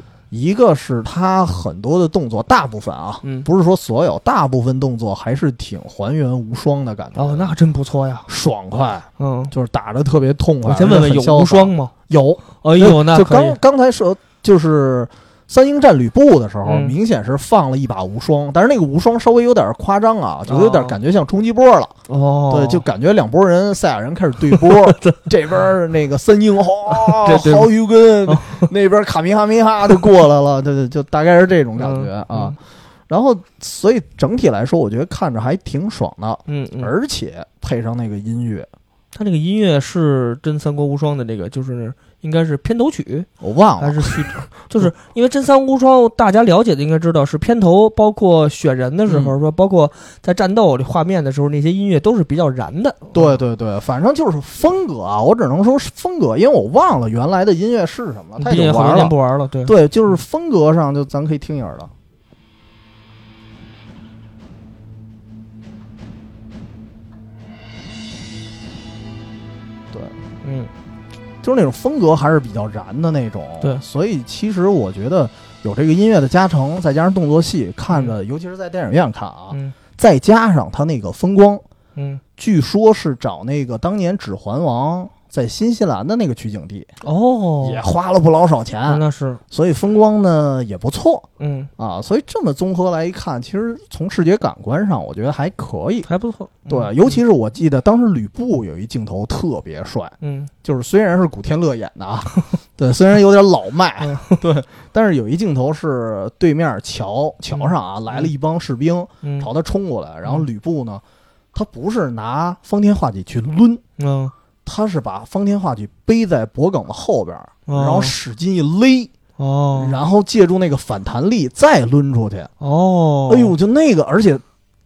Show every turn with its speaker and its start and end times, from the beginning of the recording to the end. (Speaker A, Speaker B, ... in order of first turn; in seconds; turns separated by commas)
Speaker A: 0.3-7.5, Speaker B: 3.2-3.5, Speaker B: 7.2-8.3, Speaker A: 8.3-21.9, Speaker B: 9.2-9.5, Speaker B: 10.7-11.9, Speaker B: 12.6-13.6, Speaker B: 16.6-16.9, Speaker B: 20.5-21.0, Speaker B: 22.1-22.9, Speaker A: 22.5-32.6, Speaker B: 24.5-25.3, Speaker B: 26.9-27.7, Speaker B: 28.3-28.7, Speaker B: 31.8-32.6, Speaker A: 33.1-38.7, Speaker B: 36.5-36.9, Speaker B: 39.1-43.3, Speaker A: 43.4-44.9, Speaker B: 43.8-53.3, Speaker A: 49.1-49.3, Speaker A: 53.1-61.9, Speaker B: 58.4-59.7, Speaker B: 70.4-70.7, Speaker A: 71.4-81.6, Speaker B: 82.0-82.2, Speaker A: 82.4-86.9, Speaker B: 87.0-87.8, Speaker A: 87.6-91.3, Speaker B: 88.9-89.4, Speaker B: 91.4-91.7, Speaker A: 91.8-96.1, Speaker B: 96.1-97.2, Speaker A: 96.7-111.0, Speaker B: 100.2-100.5, Speaker B: 104.0-104.4, Speaker B: 107.5-108.3, Speaker B: 109.2-109.5, Speaker A: 111.5-113.8, Speaker B: 114.0-114.3, Speaker A: 114.7-119.1, Speaker B: 117.7-118.2, Speaker B: 119.4-120.0, Speaker A: 119.8-122.5, Speaker B: 122.6-123.5, Speaker A: 123.3-124.4